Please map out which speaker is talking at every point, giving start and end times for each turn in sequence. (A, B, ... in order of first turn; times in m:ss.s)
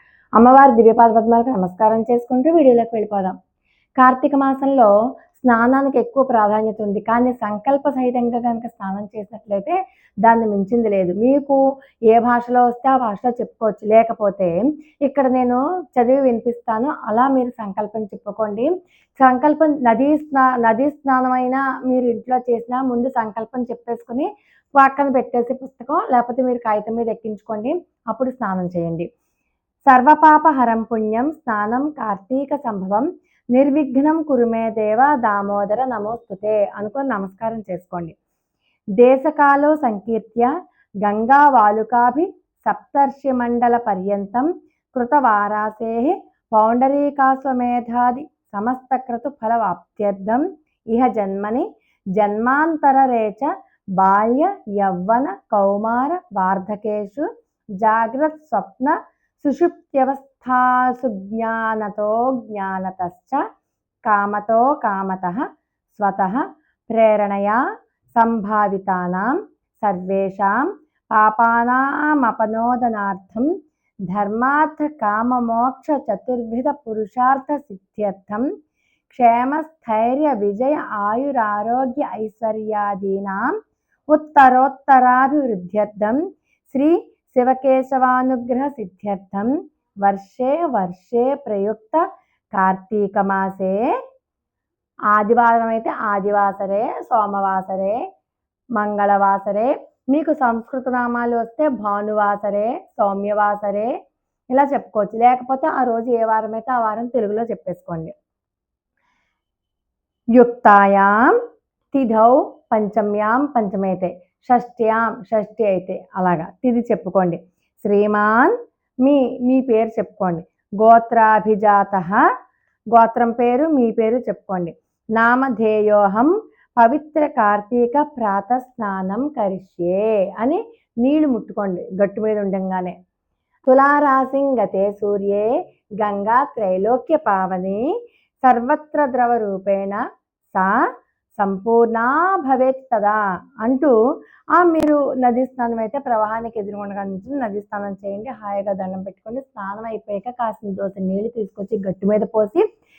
0:00.4-0:03.3 A
0:04.0-0:29.1 A
0:29.9-0:38.1 A
0:39.0-0:40.5 A
0:41.0-0:57.3 A
0:57.8-1:03.4 A
1:04.0-1:07.6 A
1:08.1-1:13.6 A
1:14.1-1:18.5 A
1:19.1-1:23.6 A
1:24.1-1:33.9 A
1:35.1-1:38.0 A
1:38.8-1:43.9 A
1:44.5-1:48.1 A
1:50.4-1:51.3 A
1:51.9-2:02.2 A
2:02.9-2:12.9 A
2:13.7-2:17.9 A
2:18.4-2:20.0 A
2:21.3-2:23.9 A
2:24.6-2:32.6 A